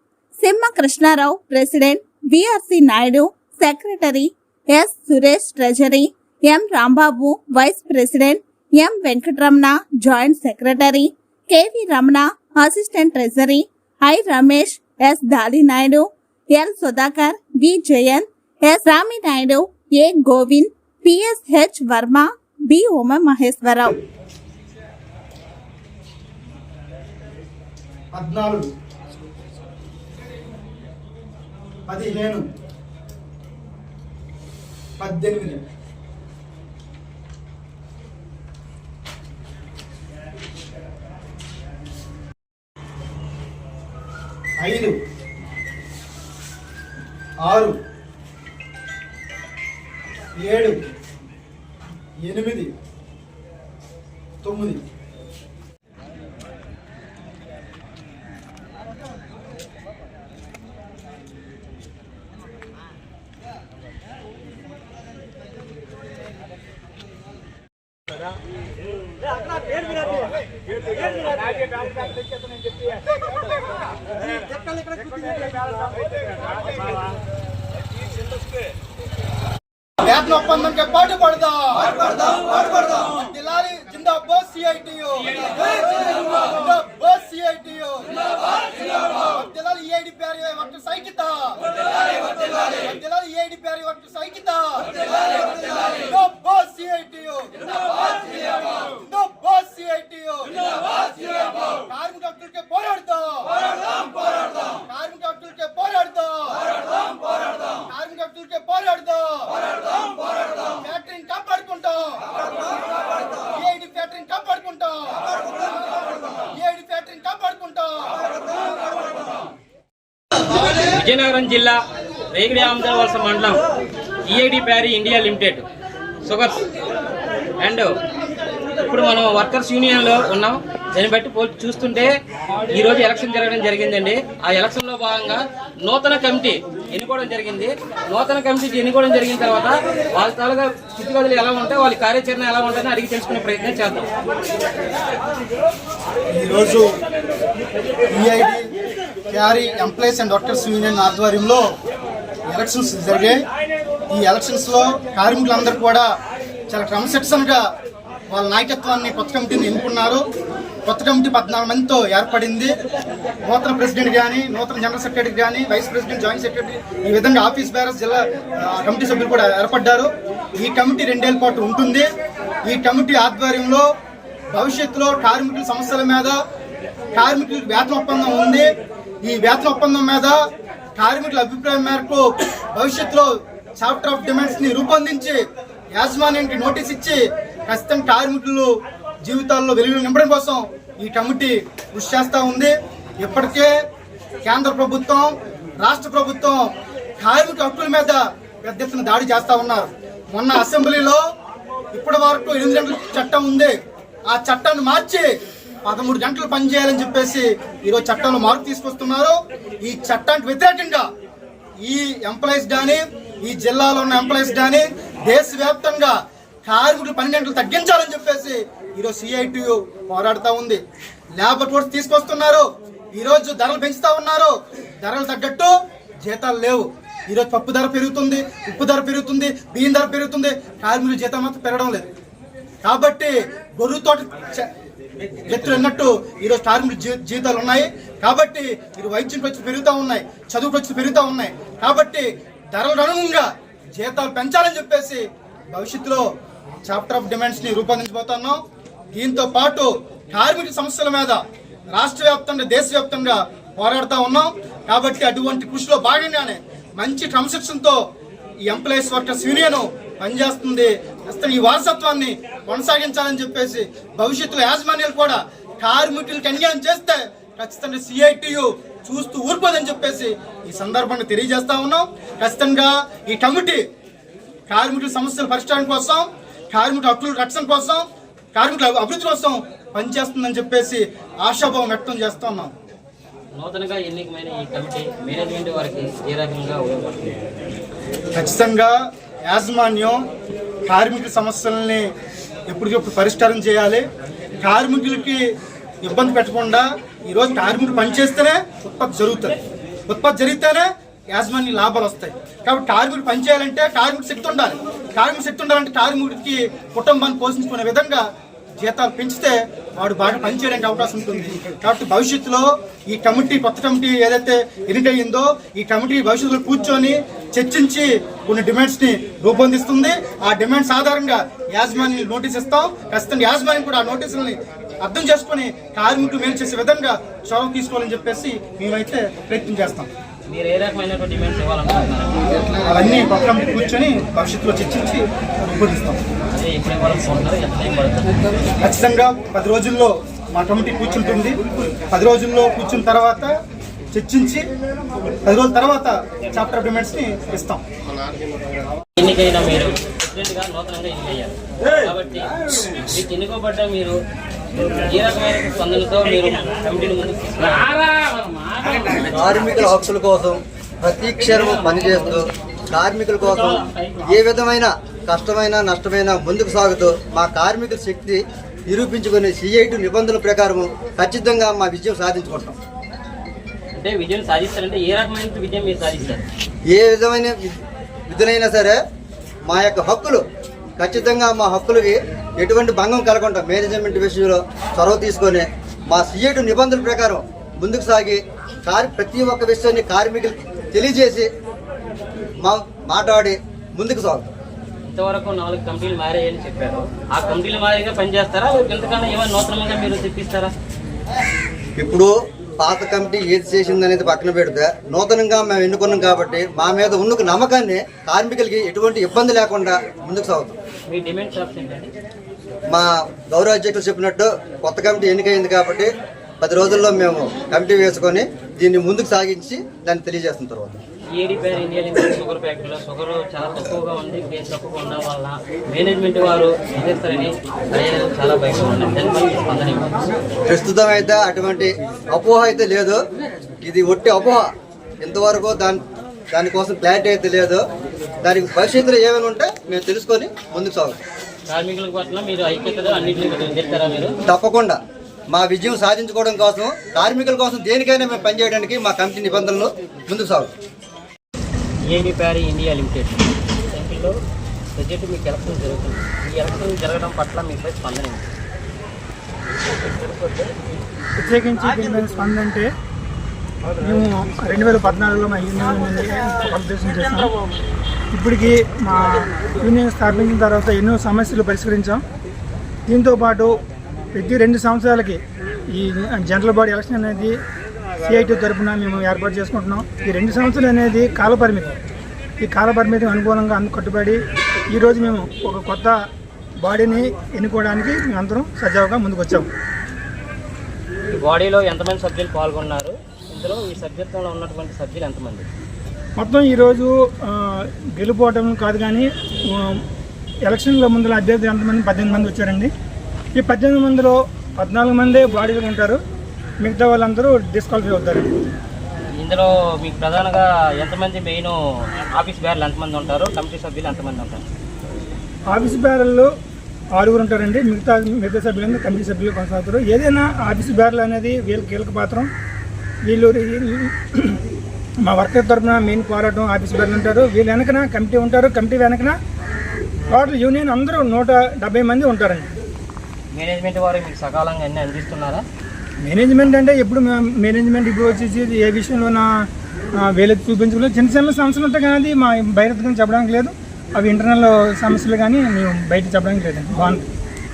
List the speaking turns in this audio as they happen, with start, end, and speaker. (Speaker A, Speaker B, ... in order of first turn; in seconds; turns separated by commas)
Speaker A: 0.4-24.0, Speaker B: 28.1-28.7, Speaker B: 31.9-32.4, Speaker B: 35.0-35.6, Speaker B: 44.6-45.0, Speaker B: 47.4-47.7, Speaker B: 50.4-50.8, Speaker B: 52.2-52.7, Speaker B: 54.4-54.8, Speaker B: 80.0-91.6, Speaker B: 92.2-106.7, Speaker B: 107.8-112.2, Speaker B: 113.5-115.3, Speaker B: 116.5-118.3, Speaker C: 120.9-121.8, Speaker C: 122.3-123.6, Speaker C: 124.3-125.7, Speaker C: 126.2-126.6, Speaker C: 127.6-128.0, Speaker C: 128.8-132.1, Speaker C: 132.7-144.1, Speaker B: 146.3-146.9, Speaker B: 148.1-148.6, Speaker B: 149.3-151.6, Speaker B: 152.5-153.4, Speaker B: 154.1-156.1, Speaker B: 156.7-157.6, Speaker B: 158.3-160.2, Speaker B: 160.8-162.7, Speaker B: 163.4-172.0, Speaker B: 172.6-173.8, Speaker B: 174.5-176.4, Speaker B: 177.1-178.7, Speaker B: 179.2-180.4, Speaker B: 181.0-185.4, Speaker B: 185.9-188.7, Speaker B: 189.2-193.7, Speaker B: 194.4-201.2, Speaker B: 201.9-203.7, Speaker B: 204.3-205.3, Speaker B: 205.8-211.1, Speaker B: 211.8-220.8, Speaker B: 221.3-225.7, Speaker B: 226.2-232.1, Speaker B: 232.8-234.7, Speaker B: 235.5-246.3, Speaker B: 246.8-248.6, Speaker B: 249.1-251.4, Speaker B: 251.9-258.0, Speaker B: 258.6-273.8, Speaker B: 274.7-282.7, Speaker C: 283.5-287.4, Speaker B: 288.3-290.3, Speaker B: 290.9-292.1, Speaker B: 292.7-294.0, Speaker B: 294.6-295.4, Speaker B: 296.0-299.6, Speaker B: 300.1-308.2, Speaker B: 308.8-330.1, Speaker C: 330.5-332.5, Speaker B: 332.9-336.2, Speaker C: 336.5-338.3, Speaker B: 338.8-341.6, Speaker B: 342.1-343.5, Speaker B: 344.1-344.7, Speaker B: 345.4-347.8, Speaker C: 349.2-354.2, Speaker C: 355.1-358.1, Speaker C: 358.6-359.1, Speaker D: 359.2-372.8, Speaker C: 373.9-376.4, Speaker D: 376.9-377.7, Speaker D: 378.3-379.0, Speaker D: 379.6-380.4, Speaker D: 381.0-391.5, Speaker D: 392.6-394.5, Speaker C: 395.0-400.7, Speaker D: 402.0-410.8, Speaker C: 411.1-412.1, Speaker D: 412.9-416.1, Speaker D: 416.6-421.0, Speaker C: 421.4-430.3, Speaker D: 430.7-433.2, Speaker D: 433.8-434.7, Speaker D: 435.2-437.8, Speaker D: 438.4-441.2, Speaker C: 441.7-444.3, Speaker D: 444.5-445.0, Speaker D: 445.5-450.7, Speaker C: 452.1-454.4, Speaker C: 454.9-458.5, Speaker E: 461.4-462.9, Speaker E: 464.0-467.5, Speaker E: 468.3-472.2, Speaker E: 473.1-473.8, Speaker E: 474.3-475.4, Speaker E: 475.9-477.6, Speaker E: 478.2-481.9, Speaker E: 482.6-484.4, Speaker E: 484.9-486.1, Speaker E: 486.8-489.7, Speaker C: 491.3-495.6, Speaker E: 496.4-500.0, Speaker E: 500.6-502.9, Speaker E: 503.6-506.2, Speaker E: 506.8-508.5, Speaker C: 509.4-511.8, Speaker C: 512.3-514.6, Speaker E: 515.7-516.5, Speaker E: 517.1-522.5, Speaker E: 523.2-524.6, Speaker E: 525.2-529.4, Speaker E: 530.3-532.7, Speaker C: 533.5-535.6, Speaker E: 536.2-539.5, Speaker E: 540.1-547.2